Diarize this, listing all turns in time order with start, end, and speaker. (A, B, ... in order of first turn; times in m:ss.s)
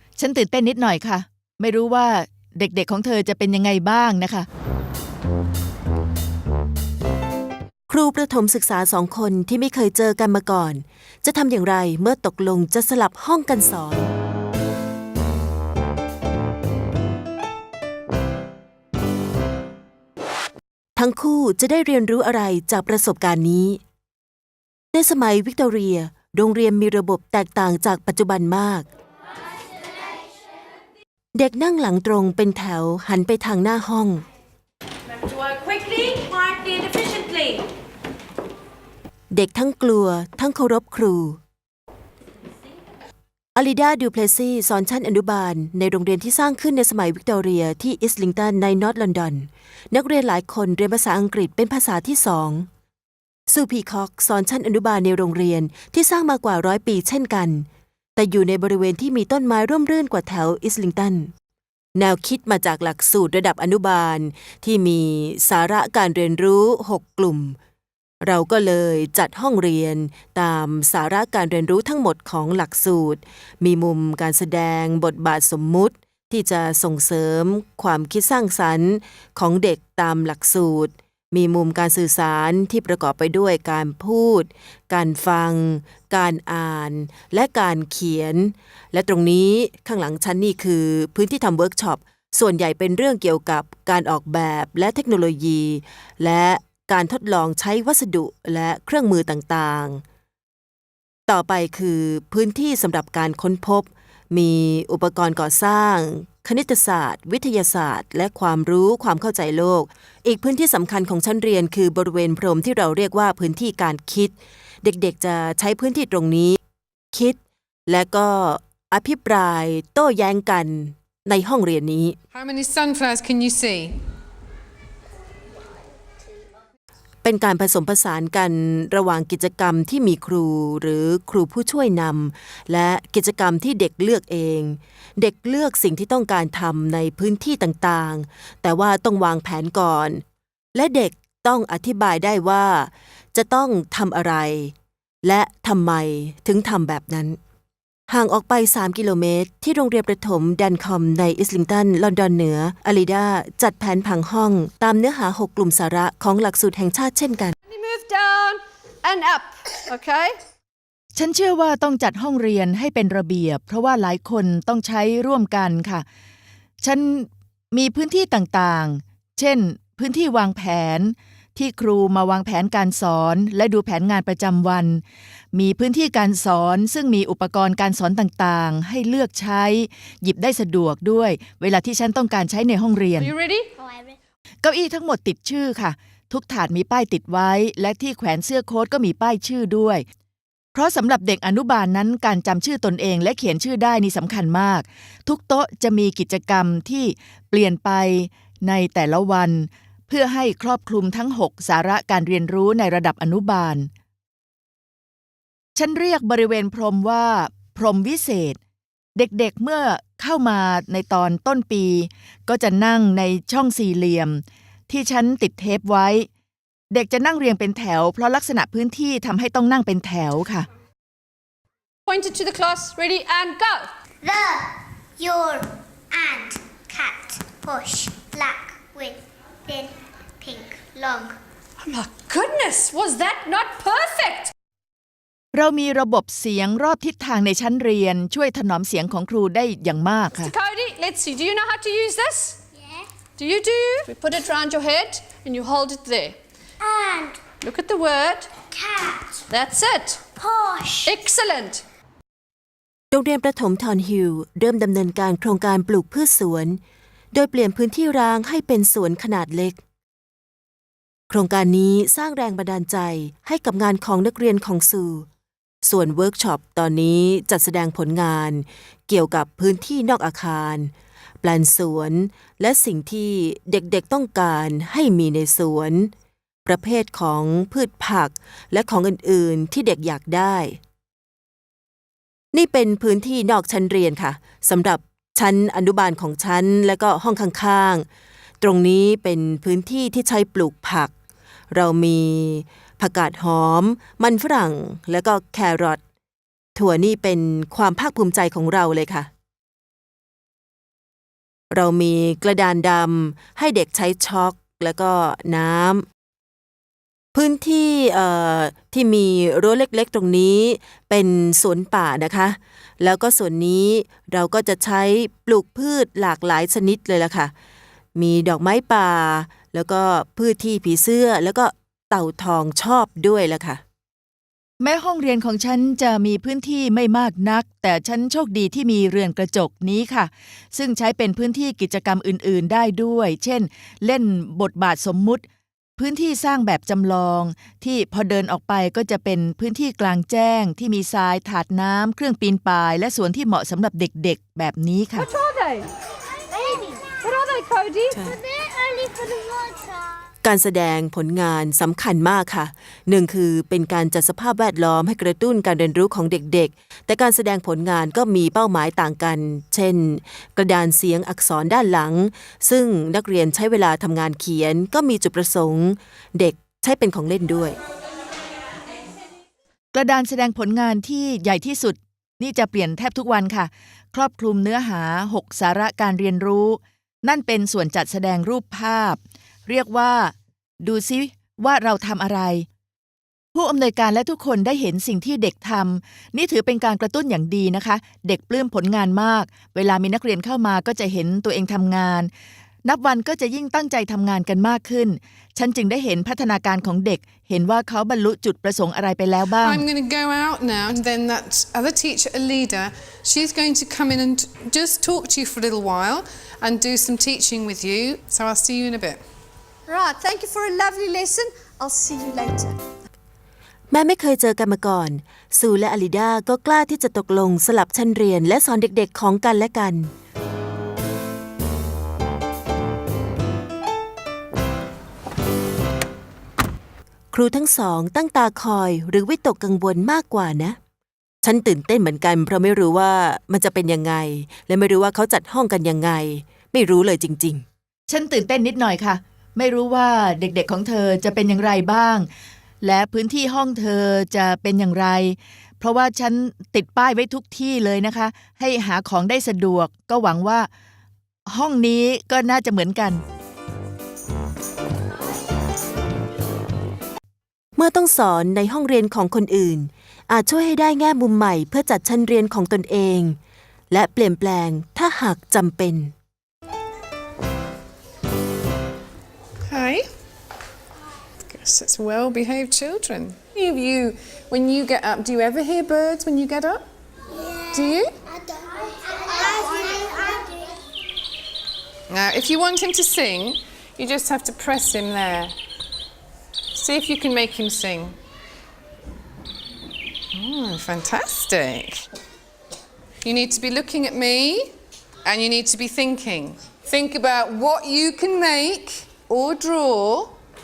0:00.2-0:04.5 A
0:07.9-0:14.1 B
0:21.0-0:23.8 B
0:24.9-0:28.8 B
0:31.3-0:34.2 B
0:35.7-0:37.2 C
0:39.3-0:41.4 B
0:43.5-0:52.7 B
0:53.5-1:01.3 B
1:01.9-1:07.6 B
1:08.2-1:40.0 B
1:41.3-1:56.6 B
1:57.1-2:02.2 B
2:02.3-2:04.0 D
2:07.2-2:20.2 B
2:20.7-2:27.4 B
2:28.1-2:37.5 B
2:37.7-2:40.3 C
2:41.1-2:46.0 A
2:46.8-2:55.0 A
2:55.5-3:03.3 A
3:03.2-3:03.7 C
3:03.8-3:04.2 E
3:04.6-3:10.0 A
3:10.7-3:23.9 A
3:25.7-3:28.6 A
3:29.2-3:36.3 A
3:36.9-3:40.7 A
3:42.0-3:43.8 C
3:44.2-3:51.4 E
3:51.8-3:54.5 C
3:55.5-4:00.5 A
4:00.3-4:02.6 C
4:03.4-4:06.4 C
4:06.8-4:07.4 E
4:07.6-4:08.5 C
4:08.7-4:09.4 E
4:09.5-4:10.2 C
4:10.4-4:11.2 E
4:11.0-4:11.8 C
4:13.1-4:16.8 B
4:17.3-4:19.8 B
4:21.3-4:25.3 B
4:25.8-4:30.9 B
4:31.4-4:36.1 B
4:36.6-4:40.8 B
4:42.5-4:48.0 B
4:48.6-4:51.1 B
4:51.7-4:56.0 B
4:56.8-4:59.3 B
5:01.7-5:06.0 B
5:07.3-5:17.5 B
5:18.1-5:23.8 B
5:24.8-5:35.4 A
5:36.0-5:45.3 A
5:45.2-5:45.9 C
5:46.5-5:47.1 E
5:47.2-5:48.2 C
5:48.3-5:50.1 E
5:50.4-6:07.8 B
6:09.9-6:22.6 A
6:23.5-6:32.3 A
6:32.8-6:39.8 A
6:39.6-6:49.2 D
6:49.9-6:52.8 C
6:53.9-7:00.1 B
7:07.3-7:10.8 B
7:11.4-7:17.6 B
7:18.1-7:22.3 A
7:22.8-7:30.7 A
7:31.5-7:33.2 A
7:37.8-7:43.4 B
7:43.9-7:46.1 B
7:49.6-7:50.1 D
7:51.5-7:56.8 D
7:57.4-7:57.8 E
7:57.7-7:58.1 D
7:59.2-8:00.6 E
8:02.1-8:05.5 D
8:06.7-8:08.2 D
8:10.3-8:12.0 D
8:13.2-8:20.4 D